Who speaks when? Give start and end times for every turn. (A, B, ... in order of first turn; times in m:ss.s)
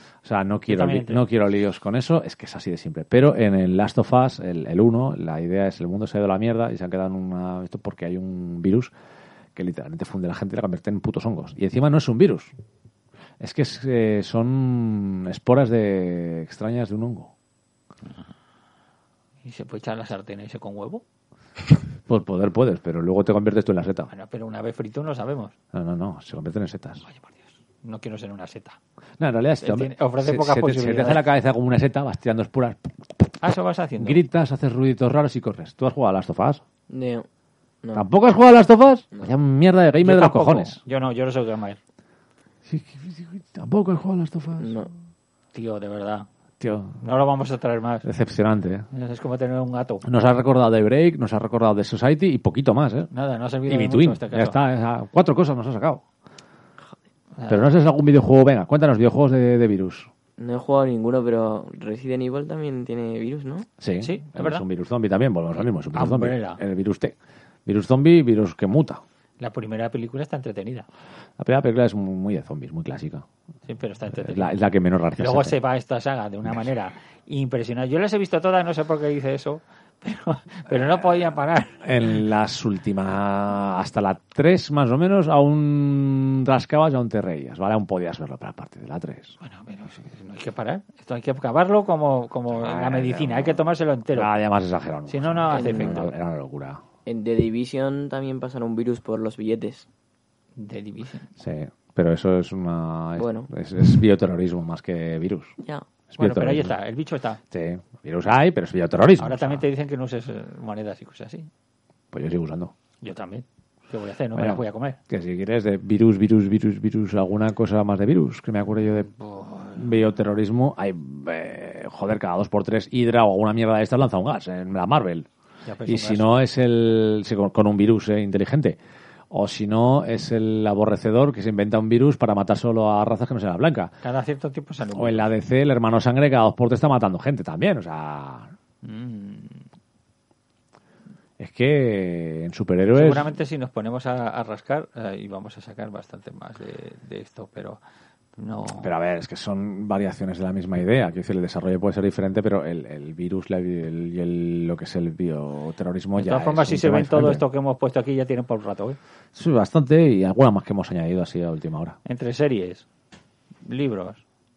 0:00.2-0:08.9 A
0:00.7-0:01.2 B
0:09.6-0:12.5 A
0:13.4-0:17.3 A
0:19.4-0:21.0 B
0:22.1-0:24.1 A
0:24.1-0:25.5 B
0:25.7-0:27.0 A
0:27.0-0:28.8 B
0:29.2-0:33.3 A
0:29.6-0:31.2 B
0:33.4-0:34.2 B
0:34.0-0:36.6 A
0:36.9-0:37.3 C
0:37.9-0:40.8 A
0:40.0-0:41.8 B
0:42.6-0:44.8 A
0:44.6-0:44.9 C
0:45.5-0:46.3 B
0:46.6-0:47.0 A
0:47.0-0:48.1 B
0:48.0-0:48.9 A
0:48.9-0:50.0 B
0:50.0-0:53.1 A
0:53.1-0:54.6 B
0:53.7-0:56.0 A
0:57.4-0:57.7 B
0:57.5-1:00.1 A
1:00.4-1:03.7 C
1:03.8-1:07.1 A
1:04.0-1:04.6 B
1:05.9-1:06.6 B
1:07.6-1:09.0 A
1:09.4-1:10.8 B
1:11.4-1:13.3 A
1:13.7-1:14.6 B
1:14.1-1:15.6 A
1:15.2-1:21.8 B
1:21.8-1:29.4 A
1:29.4-1:34.3 B
1:32.5-1:33.6 A
1:34.1-1:36.8 A
1:35.1-1:36.1 B
1:35.5-1:36.1 C
1:37.1-1:39.8 C
1:40.6-1:41.3 B
1:41.4-1:45.6 A
1:43.2-1:43.5 C
1:46.1-1:46.8 A
1:46.2-1:47.4 B
1:47.5-1:49.6 A
1:49.2-1:51.5 B
1:52.1-1:52.7 A
1:53.0-1:55.0 B
1:54.4-1:59.1 A
1:59.1-1:59.9 B
1:59.7-2:05.3 A
2:05.6-2:06.4 B
2:05.8-2:08.8 A
2:09.3-2:13.9 A
2:14.0-2:15.3 B
2:14.9-2:18.5 A
2:18.8-2:19.6 B
2:21.4-2:23.3 A
2:22.9-2:27.8 B
2:28.4-2:28.9 B
2:28.8-2:37.4 A
2:36.2-2:39.0 B
2:39.3-2:42.0 A
2:42.0-2:42.8 B
2:43.6-2:44.2 B